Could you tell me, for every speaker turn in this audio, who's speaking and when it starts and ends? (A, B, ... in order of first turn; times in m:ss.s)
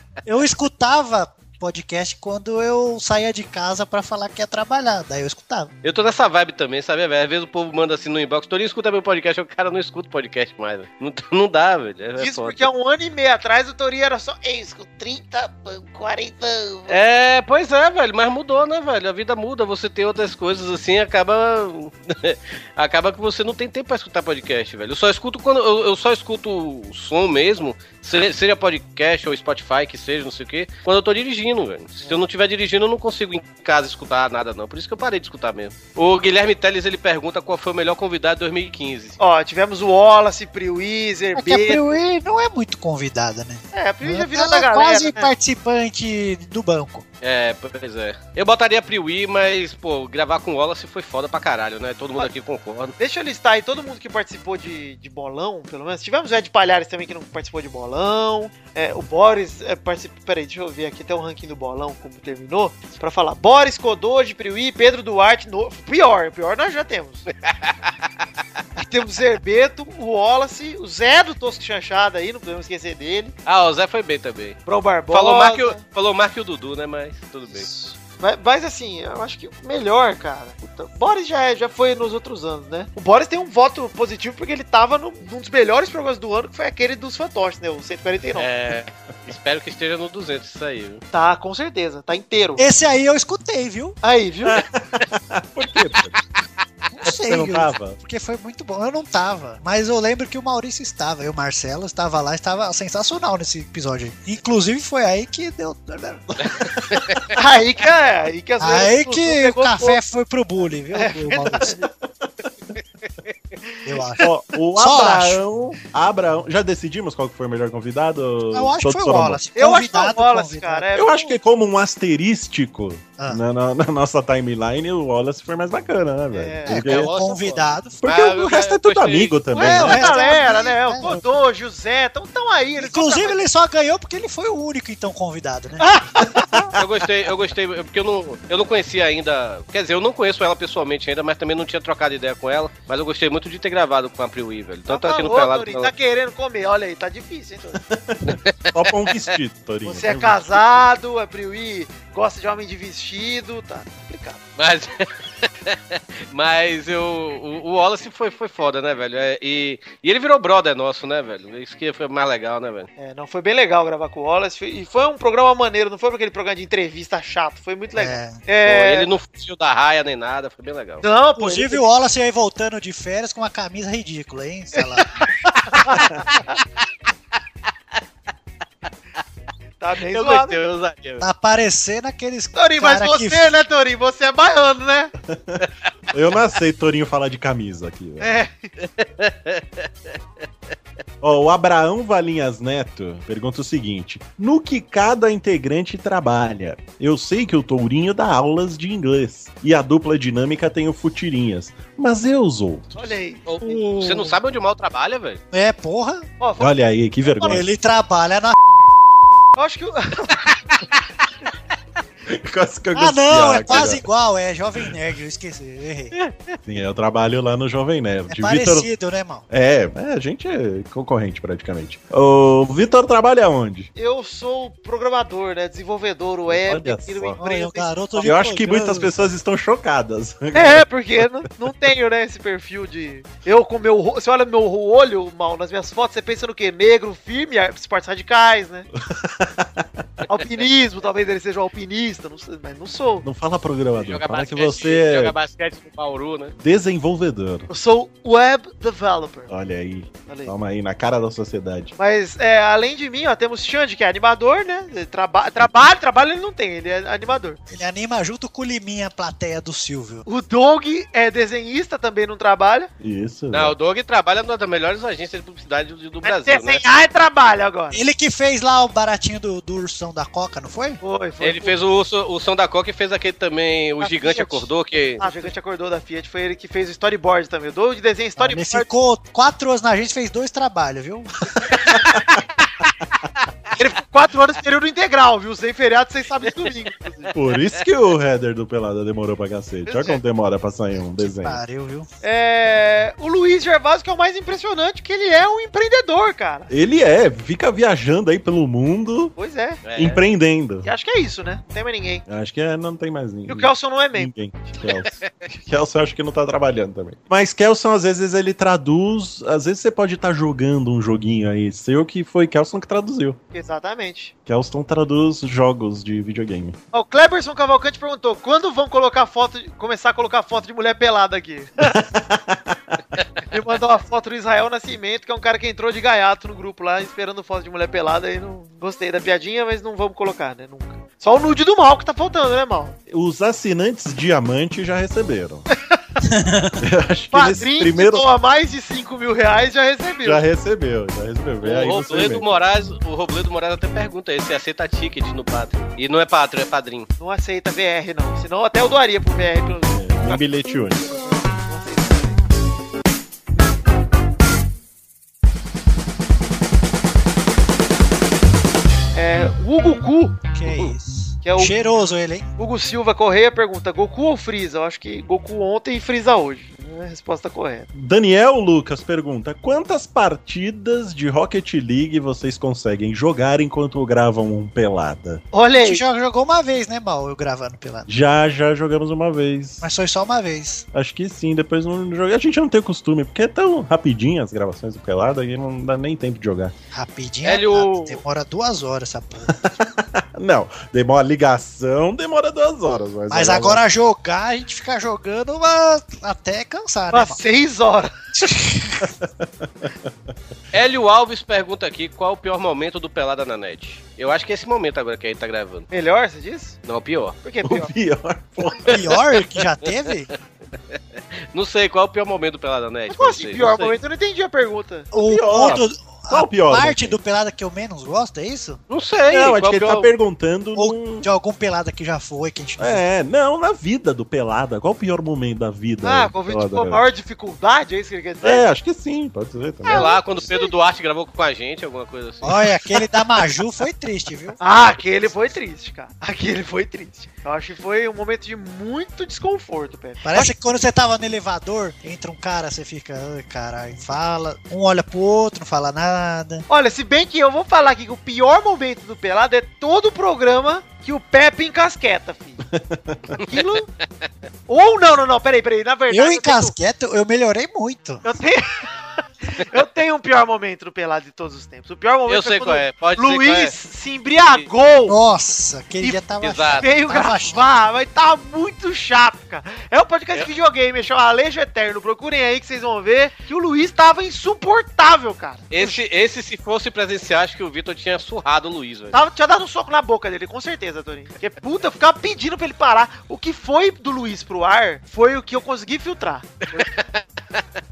0:00.3-0:05.7 A
0:05.8-0:12.7 B
0:12.2-0:15.1 C
0:14.8-0:16.9 D
0:16.9-0:39.2 B
0:39.2-0:42.0 C
0:41.4-0:47.0 A
0:43.7-0:45.3 C
0:47.2-0:53.0 B
0:53.0-1:07.3 C
1:07.4-1:07.9 B
1:08.8-1:13.4 C
1:13.5-1:14.6 B
1:14.7-1:15.8 C
1:15.1-1:17.7 B
1:17.5-1:28.5 C
1:28.4-1:31.0 B
1:31.1-1:32.6 C
1:32.6-1:34.0 A
1:34.0-1:34.6 C
1:34.4-1:36.2 E
1:36.9-1:46.7 A
1:37.2-1:38.0 E
1:46.9-1:47.2 B
1:47.4-1:50.0 C
1:48.6-1:51.8 A
1:50.9-1:51.8 C
1:53.6-1:53.9 C
1:53.9-1:55.4 A
1:54.2-1:59.5 E
1:58.5-2:00.9 A
1:59.5-2:01.4 C
2:00.9-2:07.1 E
2:06.3-2:07.0 C
2:06.7-2:08.0 A
2:06.8-2:10.1 B
2:08.0-2:10.2 E
2:09.5-2:13.4 C
2:09.6-2:11.2 A
2:12.8-2:15.9 A
2:15.8-2:16.7 C
2:16.8-2:25.9 B
2:24.9-2:27.8 C
2:27.9-2:30.8 E
2:28.3-2:29.4 B
2:29.8-2:34.4 C
2:34.6-2:42.9 B
2:43.0-2:49.1 C
2:48.0-2:48.4 A
2:48.6-2:51.0 B
2:51.0-2:51.8 C
2:51.4-2:55.1 A
2:55.8-2:56.1 C
2:59.8-3:00.6 C
3:00.0-3:01.2 B
3:01.2-3:03.6 A
3:02.6-3:05.1 C
3:05.3-3:08.3 E
3:08.2-3:08.7 C
3:08.8-3:09.9 B
3:11.2-3:23.1 E
3:23.0-3:23.7 C
3:23.5-3:25.4 B
3:23.6-3:24.4 A
3:25.5-3:26.3 A
3:26.4-3:27.6 C
3:26.6-3:27.6 E
3:27.5-3:28.6 A
3:29.6-3:30.5 C
3:32.3-3:34.0 E
3:32.9-3:36.1 A
3:36.7-3:38.9 E
3:38.3-3:39.5 A
3:39.5-3:43.9 E
3:44.0-3:48.3 C
3:46.5-3:47.4 E
3:47.4-3:49.3 A
3:48.2-3:51.3 E
3:50.5-3:58.9 C
3:59.0-3:59.9 E
4:00.3-4:03.2 C
4:03.2-4:05.4 E
4:04.0-4:06.6 B
4:06.6-4:07.7 E
4:07.7-4:09.5 C
4:09.5-4:12.0 E
4:10.3-4:10.5 C
4:12.0-4:17.6 C
4:15.6-4:15.8 E
4:17.7-4:20.3 A
4:20.3-4:22.9 C
4:23.0-4:23.8 E
4:23.5-4:26.8 B
4:26.2-4:28.0 C
4:27.9-4:31.0 A
4:31.0-4:31.8 C
4:31.4-4:35.3 B
4:34.0-4:38.9 C
4:38.4-4:41.3 A
4:41.9-4:42.4 E
4:43.8-4:47.3 C
4:47.3-4:47.8 B
4:47.3-4:51.6 E
4:49.9-4:50.2 C
4:51.0-4:52.1 A
4:52.2-4:56.7 C
4:56.7-4:59.4 E
4:59.4-4:59.8 C
4:59.8-5:00.2 B
5:00.0-5:00.9 E
5:00.8-5:02.2 C
5:02.3-5:13.4 E
5:03.5-5:04.3 C
5:13.5-5:14.3 C
5:14.4-5:16.8 E
5:16.9-5:22.0 C
5:21.8-5:22.8 E
5:23.5-5:33.0 C
5:33.1-5:35.7 E
5:35.7-5:36.0 C
5:36.2-5:36.8 A
5:36.8-5:38.3 E
5:37.3-5:40.4 C
5:40.2-5:42.5 E
5:41.6-5:47.1 B
5:47.2-5:50.0 C
5:49.9-5:51.2 E
5:51.1-5:52.4 C
5:59.2-6:00.4 C
6:00.5-6:02.5 A
6:01.4-6:01.8 C
6:02.6-6:07.9 C
6:07.9-6:15.4 E
6:15.5-6:16.0 C
6:15.8-6:18.1 A
6:18.1-6:19.8 E
6:19.8-6:20.8 A
6:20.9-6:26.7 E
6:26.9-6:29.6 A
6:27.4-6:28.2 B
6:29.8-6:33.8 E
6:33.3-6:37.4 A
6:37.1-6:38.1 C
6:38.4-6:39.1 A
6:39.0-6:39.9 E
6:40.7-6:45.9 B
6:45.9-6:46.8 C
6:46.8-6:47.4 B
6:47.4-6:47.9 C
6:47.6-6:49.2 E
6:48.9-6:50.3 A
6:50.9-6:54.0 B
6:53.1-6:55.1 C
6:55.1-6:58.8 A
6:55.2-6:57.2 E
6:58.9-7:00.2 B
6:59.3-7:01.3 E
7:00.8-7:03.0 A
7:02.8-7:07.1 E
7:06.0-7:08.7 C
7:08.4-7:10.2 E
7:09.9-7:12.6 B
7:12.4-7:14.6 A
7:14.6-7:20.5 C
7:20.2-7:26.7 A
7:26.7-7:32.6 C
7:32.7-7:33.5 E
7:33.4-7:33.9 C
7:34.7-7:36.7 C
7:36.1-7:38.2 A
7:38.2-7:38.9 C
7:39.5-7:45.2 C
7:42.3-7:43.7 B
7:45.1-7:47.7 A
7:46.4-7:46.9 B
7:46.8-7:56.0 C
7:55.7-7:59.2 B
7:59.1-8:06.9 C
8:06.7-8:07.6 B